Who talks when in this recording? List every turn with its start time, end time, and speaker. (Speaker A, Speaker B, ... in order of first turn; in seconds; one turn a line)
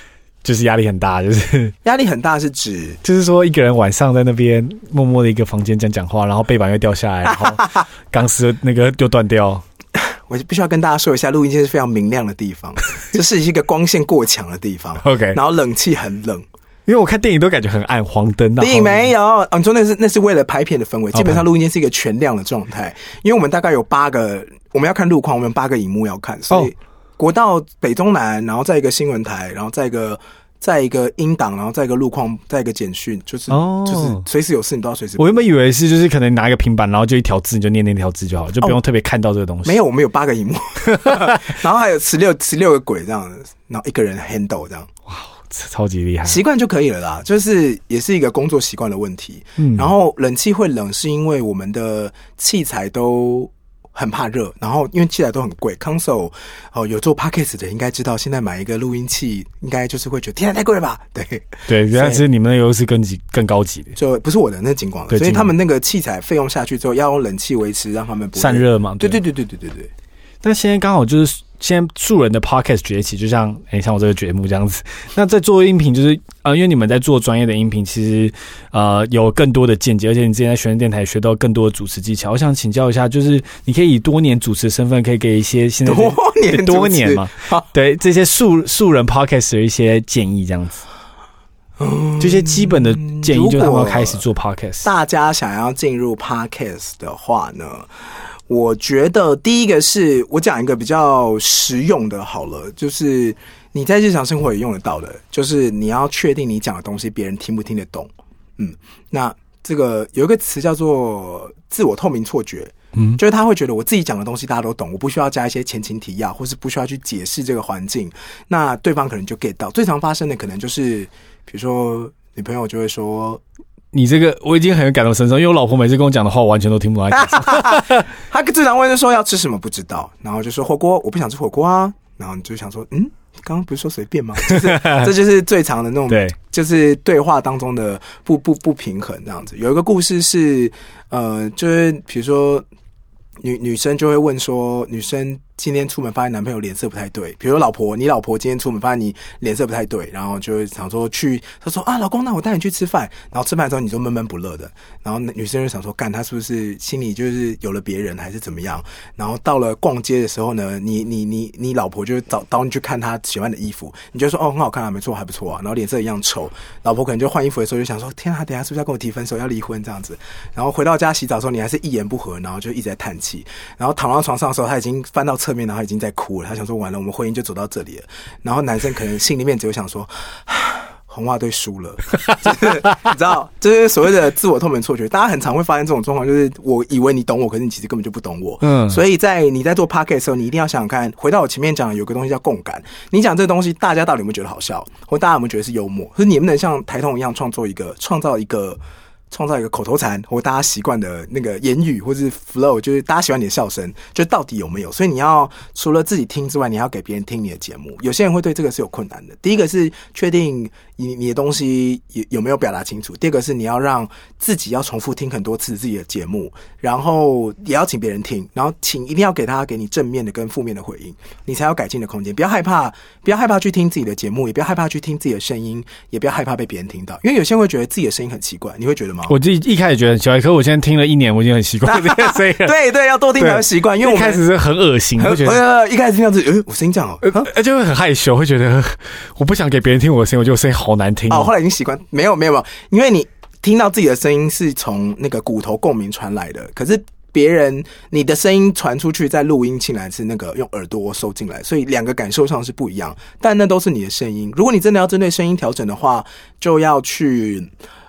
Speaker A: 0.4-1.7
Speaker B: 1.8-3.0
Speaker A: 3.0-9.6
Speaker B: 7.3-7.8
Speaker B: 9.9-16.4
Speaker A: 15.0-15.4
Speaker A: 16.9-19.1
Speaker B: 18.6-35.5
Speaker A: 21.1-21.4
Speaker A: 33.5-34.2
Speaker A: 35.2-39.8
Speaker B: 39.6-44.9
Speaker A: 40.9-41.5
Speaker A: 45.1-46.4
Speaker B: 46.2-62.2
Speaker A: 49.6-49.9
Speaker A: 61.7-64.0
Speaker B: 64.0-69.9
Speaker A: 65.1-65.5
Speaker A: 68.4-69.2
Speaker A: 70.4-90.8
Speaker B: 85.9-87.7
Speaker B: 91.8-94.2
Speaker A: 92.2-94.9
Speaker B: 94.8-97.9
Speaker B: 98.5-123.4
Speaker A: 113.0-113.2
Speaker A: 123.9-128.1
Speaker B: 127.1-142.7
Speaker A: 134.4-135.1
Speaker A: 136.1-136.3
Speaker B: 143.4-198.8
Speaker A: 188.6-189.0
Speaker B: 199.3-229.3
Speaker A: 229.3-232.8
Speaker B: 231.8-234.4
Speaker A: 233.4-235.6
Speaker B: 235.2-237.5
Speaker A: 237.2-241.5
Speaker B: 241.3-257.7